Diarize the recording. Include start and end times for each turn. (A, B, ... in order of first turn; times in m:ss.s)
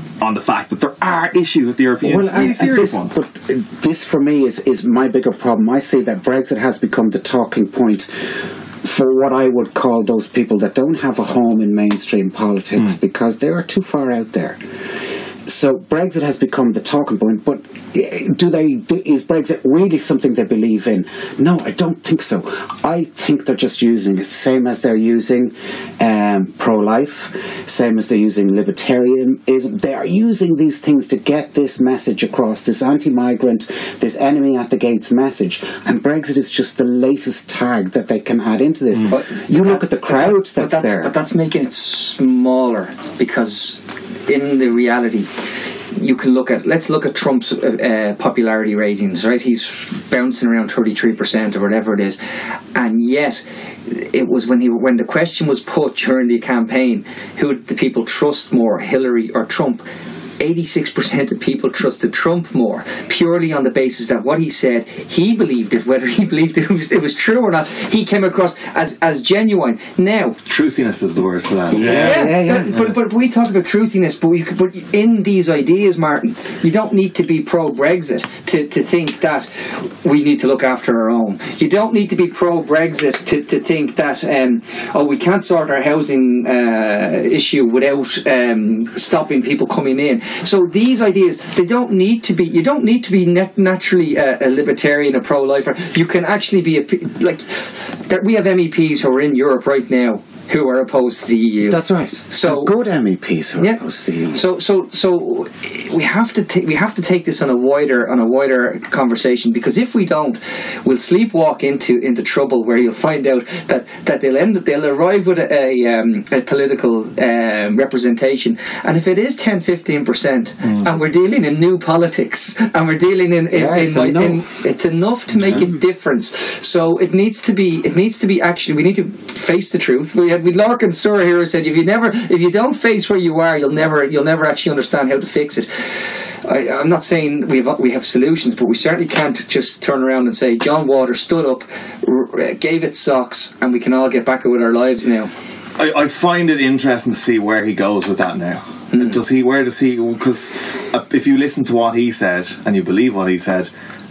0:00.2-0:03.2 A
0:02.0-0:14.6 B
0:15.4-0:41.1 B
0:39.1-0:45.4 C
0:45.9-0:52.2 C
0:52.8-0:59.8 C
1:00.4-1:10.4 C
1:10.5-1:12.9 A
1:11.7-1:12.8 B
1:11.8-1:42.7 C
1:41.7-1:44.4 B
1:44.3-2:25.3 C
2:03.5-2:04.6 B
2:05.5-2:05.8 B
2:25.8-2:33.7 A
2:28.9-2:29.2 C